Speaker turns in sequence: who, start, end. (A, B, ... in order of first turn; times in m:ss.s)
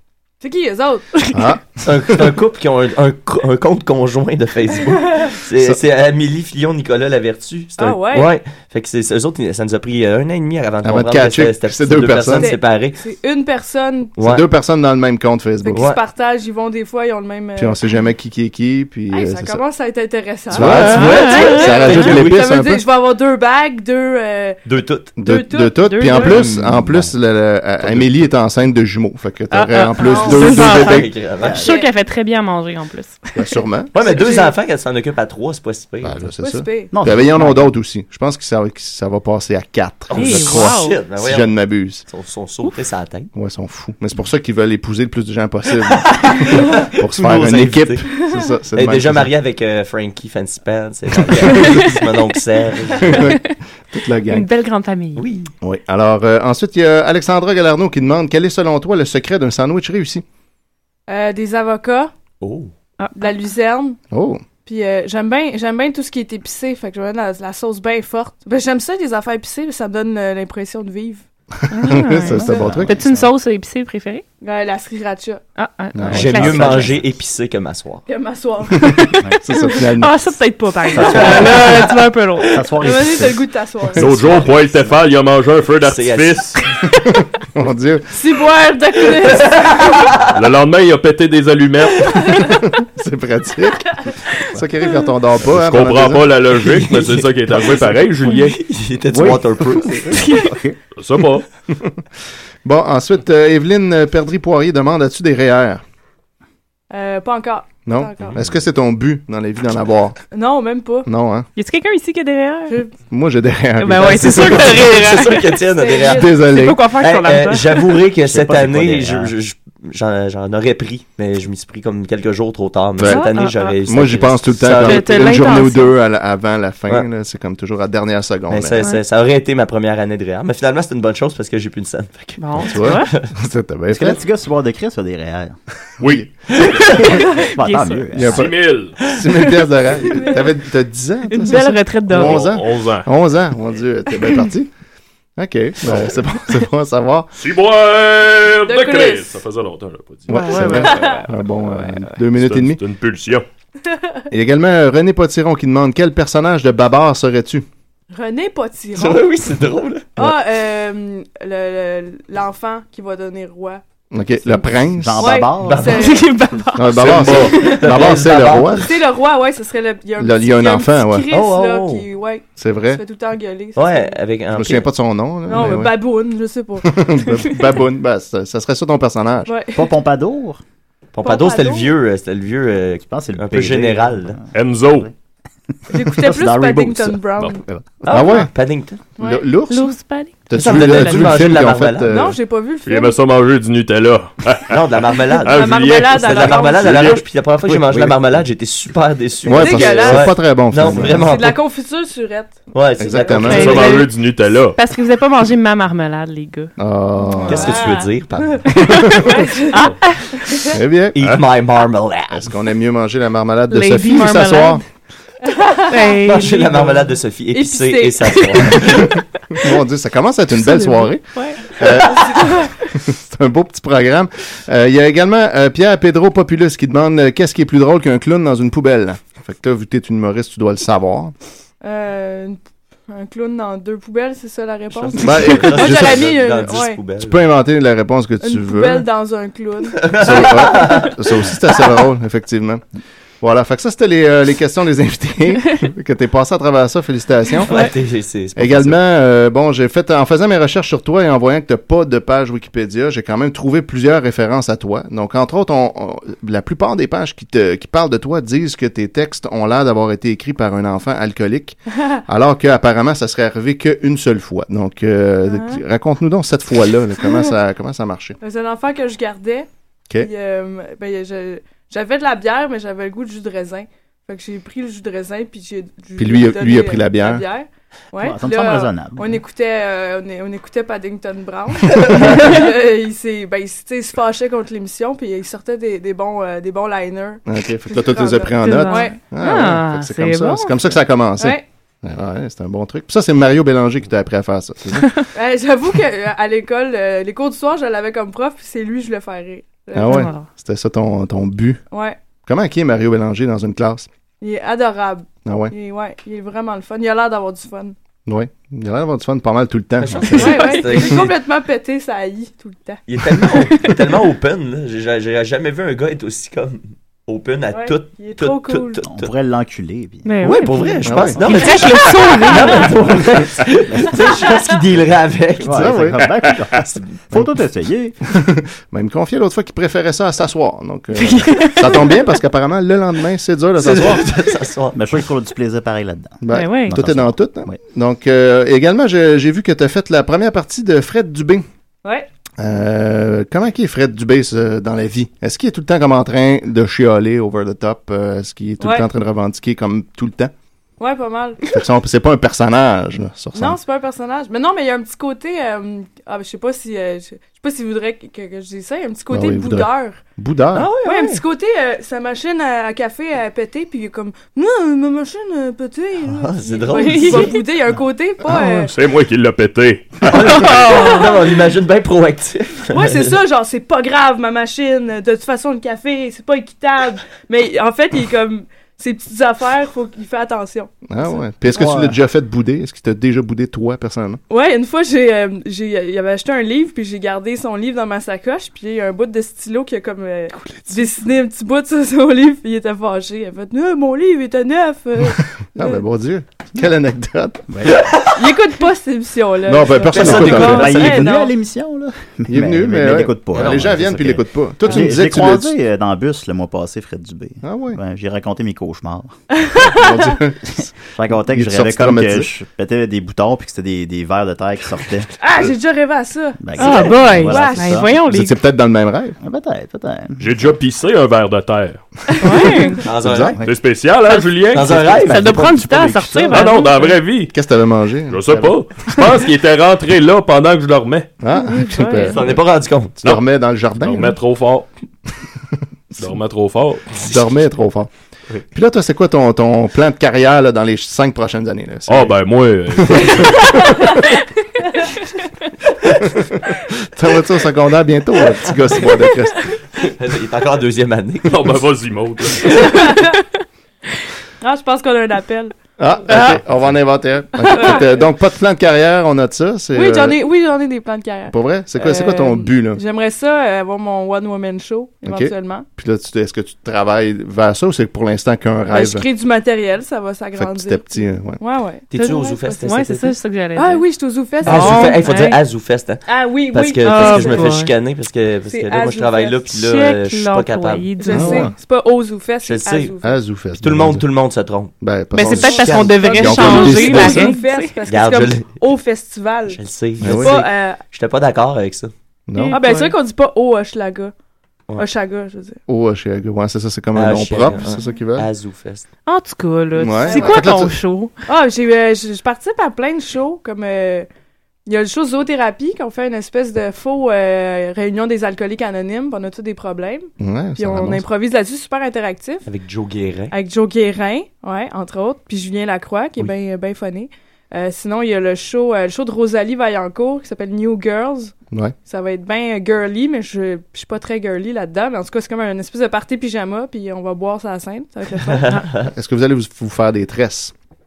0:00.4-0:01.3 A
0:01.3-0:02.3 B
0:01.8-0:13.0 C
0:04.9-0:05.3 A
0:07.8-0:08.3 A
0:10.8-0:12.5 B
0:12.3-0:14.1 A
0:14.2-0:14.4 C
0:14.2-0:15.9 B
0:15.6-0:17.8 A
0:15.7-0:16.0 C
0:17.6-0:19.6 B
0:19.1-0:24.6 A
0:20.5-0:22.8 B
0:20.5-0:22.5 C
0:20.8-0:22.0 D
0:24.6-0:25.1 C
0:25.2-0:26.4 A
0:25.2-0:31.1 B
0:25.8-0:26.4 D
0:26.4-0:27.1 E
0:29.5-0:33.2 D
0:30.0-0:30.6 A
0:30.4-0:31.6 C
0:31.4-0:31.8 E
0:33.3-0:33.9 B
0:33.9-0:36.3 C
0:34.0-0:34.5 A
0:36.0-0:42.0 B
0:36.4-0:36.9 A
0:36.9-0:37.7 E
0:40.1-0:43.3 C
0:40.1-0:41.0 D
0:43.3-0:49.3 B
0:46.0-0:48.1 C
0:48.8-0:53.3 C
0:51.3-0:51.8 B
0:53.0-0:54.5 B
0:54.3-0:55.2 D
0:55.2-0:55.5 C
0:55.6-1:00.2 B
1:01.1-1:02.1 A
1:02.4-1:02.7 C
1:03.0-1:03.4 D
1:03.2-1:04.0 A
1:04.1-1:04.4 B
1:04.6-1:11.2 A
1:11.7-1:14.2 D
1:11.7-1:13.0 B
1:12.0-1:13.3 E
1:14.4-1:15.4 A
1:15.6-1:16.9 D
1:15.9-1:16.8 B
1:16.1-1:18.0 C
1:18.1-1:19.0 A
1:18.8-1:19.1 D
1:19.2-1:19.4 E
1:19.4-1:20.2 B
1:19.6-1:22.5 D
1:20.9-1:21.9 E
1:21.0-1:21.9 C
1:22.5-1:24.9 E
1:22.8-1:24.0 A
1:24.0-1:26.6 F
1:24.3-1:24.9 C
1:25.8-1:26.6 C
1:27.5-1:28.0 B
1:28.1-1:30.1 A
1:29.2-1:30.2 C
1:30.3-1:32.3 F
1:32.8-1:34.0 B
1:34.5-1:36.3 B
1:35.4-1:38.6 F
1:36.7-1:40.2 C
1:39.1-1:40.8 E
1:40.9-1:41.5 F
1:42.6-1:45.8 B
1:46.9-1:48.4 A
1:47.8-1:50.2 B
1:50.3-1:51.1 A
1:51.0-1:51.5 B
1:51.6-1:52.8 D
1:52.7-1:52.9 A
1:53.1-1:54.8 B
1:53.8-1:55.6 D
1:54.0-1:56.3 C
1:55.7-1:56.4 A
1:56.0-1:56.8 B
1:56.5-1:57.8 D
1:57.0-2:05.5 C
1:58.2-1:59.3 E
2:03.0-2:08.8 B
2:03.0-2:03.7 D
2:04.8-2:05.9 D
2:08.5-2:13.2 C
2:12.4-2:13.1 D
2:12.6-2:14.2 B
2:13.9-2:15.6 E
2:16.0-2:17.0 F
2:16.5-2:16.8 C
2:17.5-2:18.5 E
2:17.6-2:18.1 D
2:18.1-2:24.7 B
2:18.2-2:19.0 F
2:20.1-2:20.4 A
2:21.3-2:22.4 D
2:22.1-2:23.1 F
2:25.4-2:27.3 B
2:27.3-2:30.8 F
2:28.6-2:29.3 A
2:30.3-2:32.8 B
2:30.3-2:32.1 D
2:30.9-2:31.2 A
2:32.3-2:33.4 F
2:33.8-2:34.2 A
2:34.3-2:37.6 B
2:38.1-2:39.3 A
2:38.9-2:40.1 C
2:40.2-2:43.8 A
2:44.1-2:45.4 B
2:44.5-2:46.1 E
2:45.2-2:46.2 A
2:45.6-2:46.1 C
2:45.9-2:47.0 D
2:46.8-2:48.9 B
2:46.9-2:47.6 F
2:47.0-2:48.9 C
2:48.8-2:54.1 A
2:50.2-2:51.3 B
2:51.3-2:52.0 C
2:52.6-2:53.0 B
2:53.8-2:54.9 C
2:54.5-2:56.0 B
2:55.5-2:57.5 A
2:56.8-2:59.5 B
2:59.4-2:59.9 A
2:59.7-3:00.6 E
3:01.1-3:04.4 C
3:01.2-3:01.9 A
3:03.0-3:05.1 E
3:04.5-3:05.1 F
3:05.9-3:07.6 A
3:05.9-3:08.4 E
3:08.1-3:09.0 C
3:08.1-3:08.5 B
3:09.2-3:09.4 A
3:09.2-3:12.3 B
3:09.7-3:11.3 D
3:10.5-3:12.2 C
3:12.1-3:13.1 A
3:12.8-3:17.2 F
3:14.7-3:21.6 C
3:15.5-3:17.0 A
3:17.9-3:18.2 E
3:19.4-3:21.3 B
3:19.5-3:20.4 A
3:21.1-3:22.7 A
3:22.7-3:24.0 C
3:23.0-3:23.8 B
3:23.3-3:24.8 F
3:23.5-3:24.1 D
3:24.8-3:27.9 D
3:26.8-3:27.8 B
3:27.5-3:28.7 C
3:27.6-3:30.7 A
3:28.8-3:30.4 D
3:30.7-3:31.4 B
3:31.2-3:32.5 C
3:32.3-3:34.8 B
3:33.7-3:34.8 D
3:35.4-3:36.0 A
3:35.9-3:37.0 D
3:36.2-3:39.2 C
3:37.5-3:38.8 A
3:39.6-3:51.3 B
3:40.6-3:41.6 D
3:42.3-3:42.6 A
3:51.8-3:57.0 A
3:54.9-3:57.4 C
3:55.1-3:56.3 B
3:57.2-3:59.0 B
3:58.4-4:00.1 A
4:00.0-4:01.2 C
4:00.2-4:02.8 B
4:03.4-4:07.7 B
4:07.7-4:09.0 C
4:08.6-4:28.4 B
4:25.5-4:25.8 A
4:28.4-4:49.2 A
4:36.2-4:37.4 B
4:38.2-4:39.4 E
4:47.4-4:55.2 B
4:48.6-4:50.8 D
4:51.4-4:51.6 A
4:55.3-5:00.3 A
4:59.9-5:01.8 B
5:00.0-5:00.5 D
5:01.9-5:02.2 A
5:02.4-5:04.1 B
5:04.4-5:07.9 A
5:05.4-5:05.7 B
5:08.2-5:10.4 B
5:10.0-5:11.4 C
5:10.3-5:10.8 D
5:10.3-5:13.5 A
5:13.1-5:19.3 C
5:13.5-5:13.9 D
5:17.7-5:19.0 A
5:19.0-5:21.7 E
5:20.2-5:22.9 D
5:20.4-5:26.0 C
5:21.0-5:21.4 B
5:22.8-5:24.6 E
5:25.6-5:28.2 E
5:25.6-5:26.5 B
5:28.3-5:34.2 B
5:31.2-5:32.1 D
5:33.8-5:35.0 C
5:34.9-5:37.8 E
5:36.4-5:41.6 B
5:36.5-5:37.0 D
5:42.6-5:50.5 B
5:48.8-5:49.1 A
5:51.0-5:51.6 A
5:51.7-5:53.8 B
5:53.5-6:00.2 A
5:59.3-6:00.9 B
6:00.7-6:01.4 C
6:01.0-6:08.9 A
6:06.3-6:07.5 C
6:06.9-6:07.6 D
6:08.5-6:08.7 B
6:08.8-6:10.7 F
6:10.3-6:13.4 C
6:10.7-6:11.3 D
6:12.9-6:20.9 A
6:21.1-6:24.4 B
6:21.7-6:22.2 E
6:24.5-6:36.0 A
6:35.7-6:37.6 B
6:37.7-6:38.0 E
6:37.9-6:38.4 C
6:38.4-6:41.5 A
6:39.6-6:41.0 B
6:40.1-6:41.3 C
6:40.2-6:49.3 E
6:42.5-6:45.7 B
6:43.5-6:44.0 C
6:47.6-6:48.0 B
6:49.5-6:50.4 A
6:49.8-6:52.5 B
6:51.1-6:55.3 E
6:55.4-6:58.0 A
6:56.6-6:58.1 E
6:56.8-6:58.6 D
6:58.2-6:59.4 B
6:59.4-7:00.5 E
7:00.4-7:02.0 F
7:02.4-7:03.0 D
7:02.4-7:03.0 A
7:03.0-7:03.6 C
7:03.2-7:03.6 B
7:03.6-7:05.2 F
7:04.7-7:05.8 C
7:05.3-7:07.2 D
7:05.3-7:06.6 E
7:06.5-7:07.5 F
7:07.5-7:08.8 B
7:08.3-7:11.3 F
7:11.4-7:12.6 B
7:11.6-7:12.4 D
7:12.3-7:13.2 C
7:13.2-7:14.4 B
7:14.0-7:14.9 F
7:16.2-7:17.2 F
7:17.2-7:18.1 B
7:18.7-7:22.4 B
7:22.1-7:24.0 F
7:23.1-7:23.8 B
7:27.1-7:29.7 B
7:30.0-7:31.8 C
7:31.5-7:33.1 F
7:33.0-7:33.4 A
7:34.6-7:35.7 A
7:36.0-7:40.4 B
7:36.3-7:36.6 D
7:37.7-7:38.2 A
7:39.9-7:45.8 A
7:41.5-7:43.0 B
7:45.2-7:49.2 B
7:48.9-7:52.8 A
7:50.6-7:51.6 B
7:52.1-7:53.3 C
7:52.2-7:54.0 D
7:53.8-7:55.2 A
7:54.6-7:55.6 D
7:54.6-8:01.1 C
7:56.3-7:57.8 A
7:57.0-7:57.9 D
7:58.7-7:59.6 A
7:59.7-8:01.7 D
8:01.2-8:03.3 A
8:01.3-8:01.7 B
8:02.6-8:03.1 C
8:03.2-8:04.2 B
8:03.8-8:06.1 C
8:05.0-8:07.6 B
8:05.3-8:08.0 D
8:05.6-8:11.0 A
8:08.1-8:08.8 C
8:09.7-8:12.1 C
8:10.2-8:10.6 B
8:12.5-8:12.8 B
8:12.5-8:13.2 D
8:12.7-8:14.3 A
8:15.0-8:15.8 A
8:15.9-8:18.5 B
8:17.1-8:19.1 C
8:19.2-8:21.3 D
8:19.9-8:21.0 B
8:20.2-8:20.6 A
8:21.5-8:24.3 A
8:24.8-8:32.7 A
8:30.4-8:31.2 B
8:32.6-8:33.5 C
8:33.5-8:48.8 A
8:48.6-8:49.1 C
8:49.0-8:50.7 B